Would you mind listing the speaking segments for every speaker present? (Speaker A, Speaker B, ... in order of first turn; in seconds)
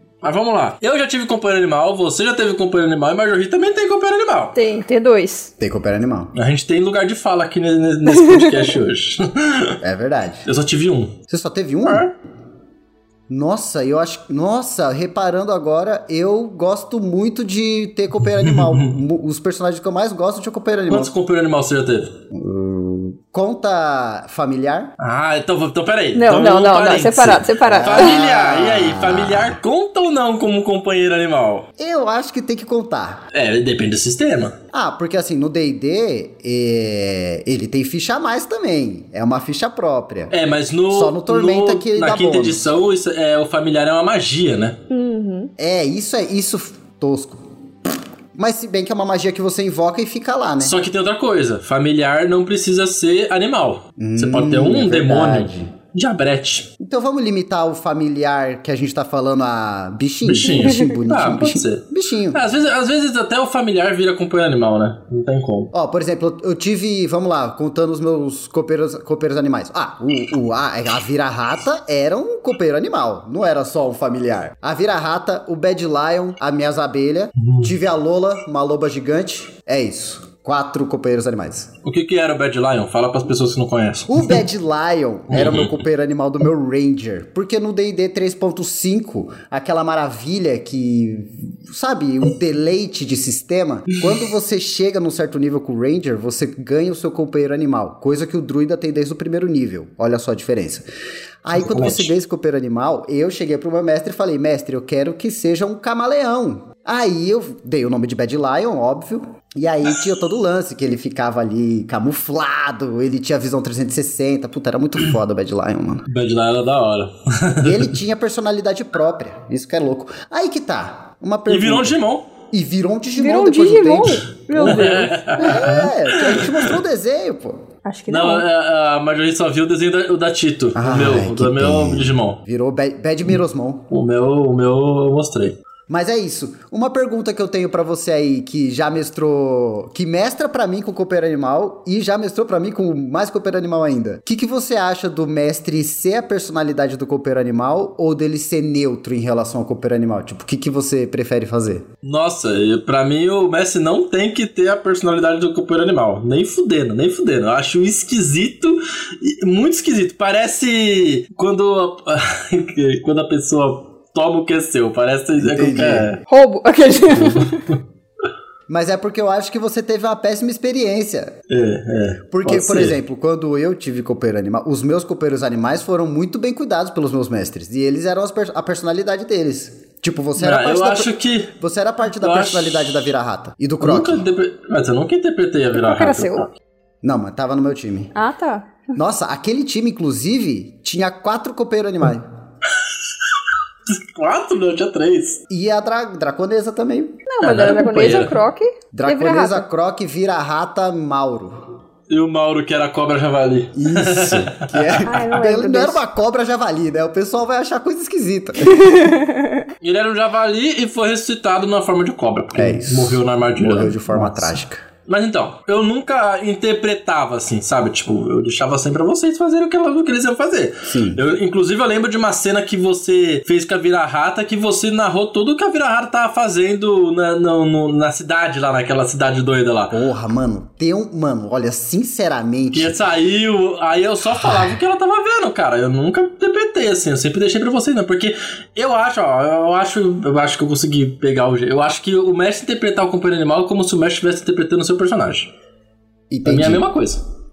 Speaker A: 0.2-4.5, 6.3-9.8, 10.4-11.2, 11.8-12.1, 18.4-18.9, 20.9-22.1, 25.0-31.7, 33.3-34.6, 40.3-44.8, 50.6-56.7, 60.2-65.7, 77.4-77.7, 81.8-84.4, 85.3-85.8, 101.5-102.1, 116.1-117.9, 121.5-122.3, 124.5-126.7, 128.1-132.4, 133.9-135.6, 152.0-166.2, 167.1-167.8, 171.5-173.0, 180.4-181.5, 182.2-183.0, 183.8-186.5, 193.9-195.4, 197.4-198.4, 202.1-205.0, 209.8-214.5, 215.1-230.0, 232.7-245.5, 246.4-247.2
Speaker B: 4.5-5.5, 8.1-8.8, 26.1-28.2, 44.9-45.5, 60.5-60.9, 123.2-125.3, 127.8-128.4, 166.3-167.6, 185.7-186.5, 188.1-188.9, 197.2-199.6, 205.0-206.0, 208.6-209.7
Speaker C: 5.6-6.3, 9.8-10.4, 11.3-12.1, 13.3-21.1, 22.3-24.9, 27.6-29.6, 31.8-33.2, 34.7-40.3, 40.9-42.7, 45.6-47.5, 48.3-50.7, 54.0-55.7, 56.8-62.4, 65.7-81.7, 84.1-100.9, 101.4-116.1, 117.6-122.0, 122.5-124.7, 125.4-127.6, 130.7-133.9, 135.9-151.8, 165.4-166.2, 168.7-171.3, 172.3-184.2, 187.0-188.1, 188.9-192.2, 195.5-197.2, 198.9-201.7, 203.7-209.0, 212.5-214.8, 220.8-221.2, 229.9-232.9, 234.4-234.7, 246.3-246.8